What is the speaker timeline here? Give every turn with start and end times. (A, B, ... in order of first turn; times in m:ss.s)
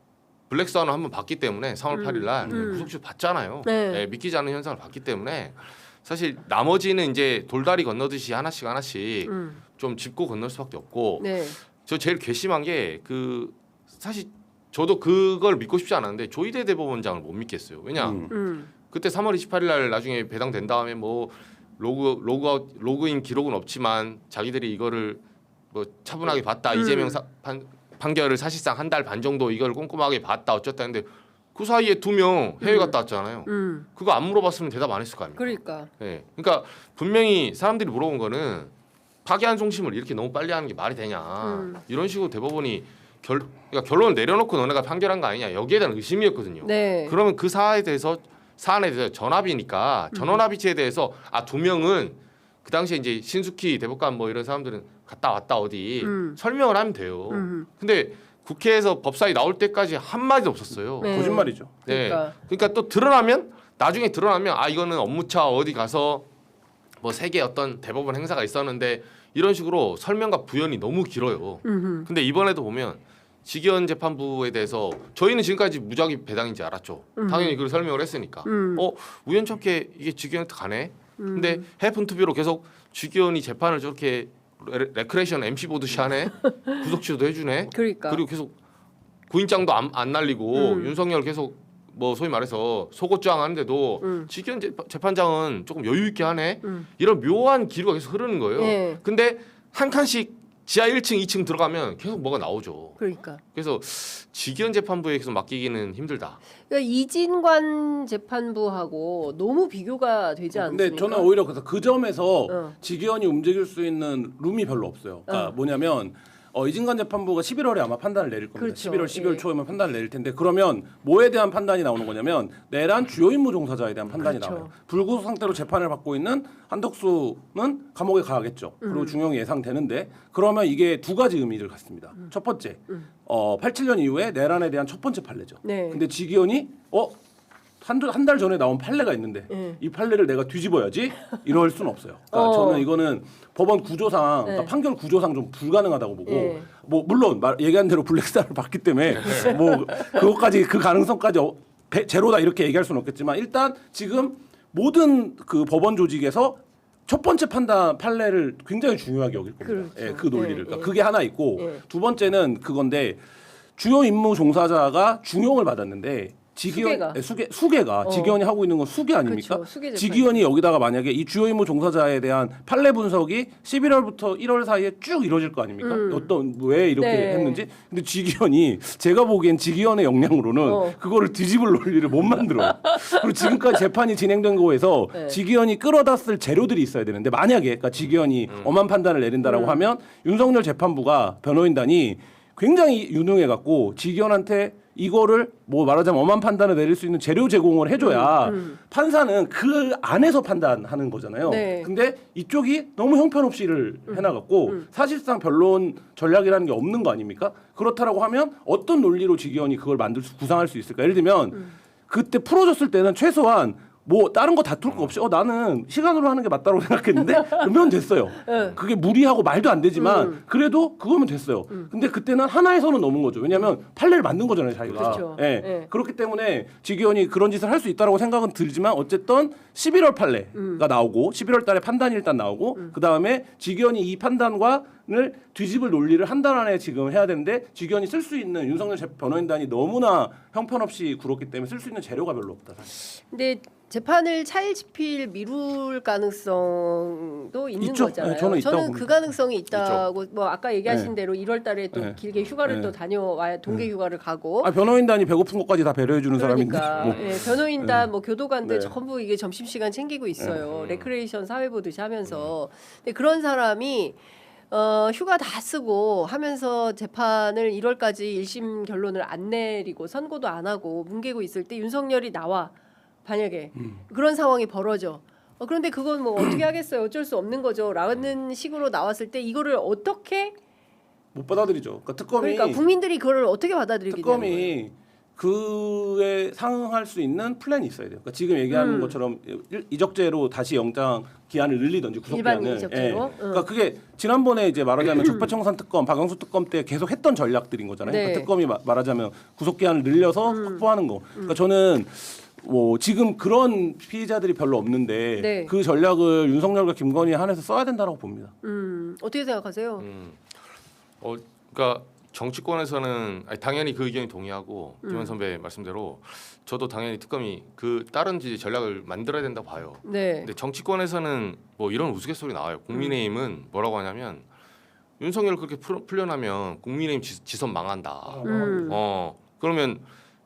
0:00.5-0:18.3 A
0:01.9-0:02.9 B
0:02.4-0:02.7 C
0:03.6-0:04.0 B
0:09.3-0:09.6 B
0:11.2-0:11.6 B
0:18.0-0:18.3 C
0:18.3-0:18.7 B
0:18.9-0:38.7 A
0:26.7-0:27.2 B
0:32.6-0:32.9 B
0:33.4-0:33.8 B
0:35.4-0:35.9 B
0:39.2-1:06.2 A
0:41.4-0:41.8 B
0:46.6-0:47.2 B
0:50.1-0:50.4 B
0:56.0-0:56.4 B
0:57.3-0:57.7 B
1:01.0-1:02.3 B
1:01.1-1:01.7 C
1:07.0-1:28.5 A
1:11.6-1:12.1 B
1:17.2-1:17.6 B
1:18.4-1:18.8 B
1:21.2-1:21.6 B
1:26.4-1:26.9 B
1:27.7-1:28.2 B
1:29.3-1:43.0 A
1:30.5-1:30.9 B
1:34.0-1:34.3 B
1:36.6-1:36.9 B
1:38.6-1:39.0 B
1:43.0-1:43.4 B
1:43.5-1:46.4 A
1:46.7-1:51.3 B
1:50.5-2:17.2 C
1:52.5-1:52.7 B
1:55.3-1:55.5 B
1:58.6-1:59.4 B
2:04.2-2:04.7 B
2:08.8-2:09.2 B
2:15.6-2:16.0 B
2:17.8-2:43.2 C
2:19.5-2:19.8 B
2:22.3-2:22.9 B
2:24.4-2:24.7 B
2:26.2-2:26.7 B
2:29.1-2:29.6 A
2:39.6-2:40.9 B
2:41.6-2:41.8 B
2:43.8-4:02.9 C
2:46.7-2:47.2 B
2:48.0-2:48.4 B
2:49.2-2:50.5 B
2:55.8-2:56.3 B
2:57.0-2:57.6 B
3:00.6-3:01.0 B
3:02.8-3:03.5 B
3:05.1-3:05.4 B
3:08.5-3:08.7 A
3:09.4-3:09.8 B
3:18.0-3:18.8 B
3:21.4-3:21.9 B
3:24.1-3:24.8 B
3:34.9-3:35.2 A
3:37.2-3:37.7 B
3:38.5-3:38.8 B
3:39.9-3:40.4 B
3:44.9-3:45.2 A
3:44.9-3:45.9 B
3:50.5-3:50.8 B
4:03.0-4:14.7 B
4:07.8-4:09.1 C
4:09.7-4:10.1 A
4:10.9-4:11.1 C
4:11.9-4:12.9 C
4:14.6-4:18.1 C
4:16.3-4:24.2 B
4:18.6-4:18.9 C
4:20.6-4:21.1 A
4:24.7-4:32.7 B
4:33.2-4:40.6 B
4:41.3-4:42.8 C
4:42.4-4:44.8 B
4:44.1-5:08.5 C
4:48.7-4:49.2 B
4:52.3-4:53.7 B
4:55.2-4:55.5 B
4:58.0-4:58.5 B
5:00.4-5:01.5 B
5:05.4-5:05.7 B
5:08.6-5:10.0 B
5:10.0-5:10.4 A
5:11.2-5:24.5 A
5:15.0-5:15.3 B
5:20.0-5:20.5 B
5:25.2-5:30.0 A
5:28.2-5:29.0 C
5:28.4-5:29.0 B